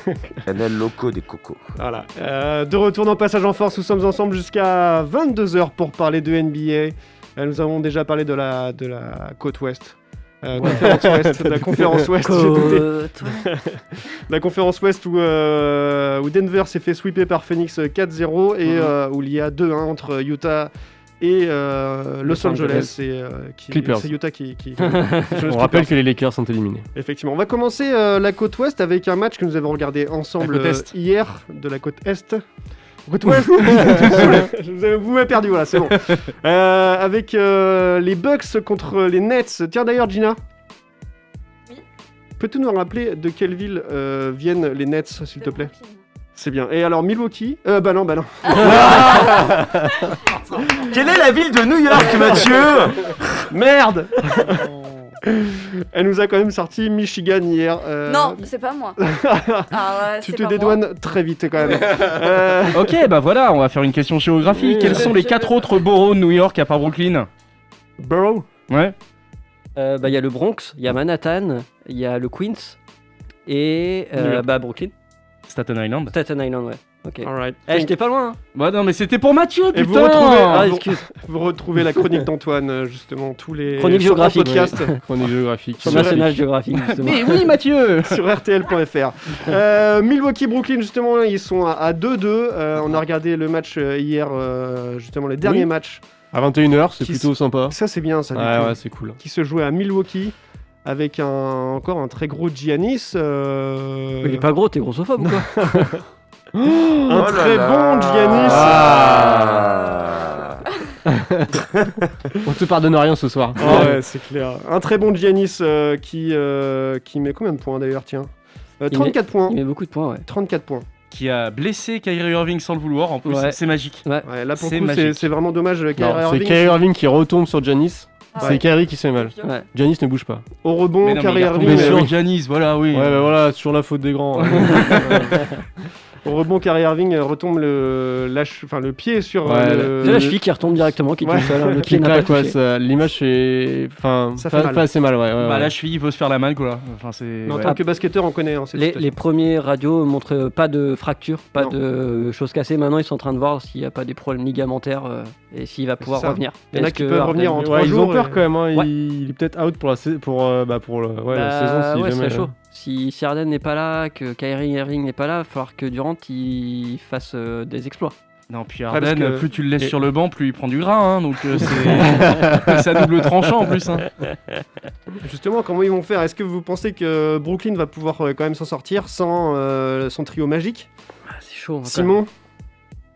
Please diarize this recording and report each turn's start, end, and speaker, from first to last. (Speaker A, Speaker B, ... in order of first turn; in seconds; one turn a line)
Speaker A: 0.5-1.6
Speaker B: 1.8-25.9
Speaker C: 10.6-10.9
Speaker D: 10.6-12.1
Speaker C: 12.2-13.4
Speaker C: 22.3-22.9
Speaker D: 22.4-22.9
Speaker D: 23.7-24.1
Speaker D: 25.4-26.9
Speaker B: 26.9-32.4
Speaker E: 30.4-30.9
Speaker B: 33.1-40.4
Speaker D: 33.4-34.4
Speaker B: 42.4-45.7
Speaker F: 45.4-46.0
Speaker B: 46.4-49.6
Speaker A: 48.7-49.3
Speaker A: 50.8-53.5
Speaker B: 53.5-54.7
Speaker B: 55.3-58.5
Speaker F: 58.0-59.0
Speaker B: 59.0-63.0
Speaker F: 59.7-60.8
Speaker E: 62.7-67.3
Speaker F: 64.8-65.8
Speaker B: 68.0-68.5
Speaker E: 68.7-69.0
Speaker C: 69.8-72.8
Speaker C: 73.5-74.9
Speaker E: 75.5-76.1
Speaker C: 76.1-78.4
Speaker B: 77.2-77.9
Speaker E: 78.5-80.7
Speaker B: 79.7-85.0
Speaker C: 80.5-81.0
Speaker C: 83.8-85.0
Speaker D: 84.4-86.3
Speaker C: 85.8-87.5
Speaker B: 85.8-86.2
Speaker E: 86.7-88.2
Speaker B: 88.0-96.0
Speaker D: 95.4-95.7
Speaker D: 96.3-97.8
Speaker B: 97.0-104.5
Speaker D: 98.3-99.2
Speaker C: 104.2-105.8
Speaker B: 105.2-106.0
Speaker B: 106.6-109.2
Speaker A: 107.1-110.6
Speaker D: 108.4-109.7
Speaker D: 111.0-111.6
Speaker A: 111.6-112.1
Speaker D: 112.4-114.0
Speaker B: 113.6-119.6
Speaker C: 118.9-120.3
Speaker B: 120.3-120.9
Speaker E: 121.1-124.0
Speaker C: 123.3-124.3
Speaker B: 124.2-126.8
Speaker E: 124.5-125.3
Speaker D: 126.0-130.4
Speaker F: 128.3-129.6
Speaker B: 130.6-132.1
Speaker E: 131.0-133.3
Speaker D: 131.6-132.2
Speaker D: 132.9-135.4
Speaker C: 134.6-134.9
Speaker B: 135.1-135.3
Speaker B: 136.2-140.3
Speaker D: 139.4-140.4
Speaker C: 140.0-142.6
Speaker B: 141.2-141.6
Speaker D: 141.7-145.7
Speaker B: 144.4-144.9
Speaker E: 145.4-147.8
Speaker B: 147.4-149.1
Speaker C: 148.7-157.6
Speaker B: 156.0-158.4
Speaker D: 157.6-162.5
Speaker C: 161.3-168.1
Speaker E: 168.5-174.1
Speaker B: 168.9-169.9
Speaker D: 172.3-172.7
Speaker B: 175.2-180.9
Speaker C: 181.3-182.2
Speaker B: 181.8-182.3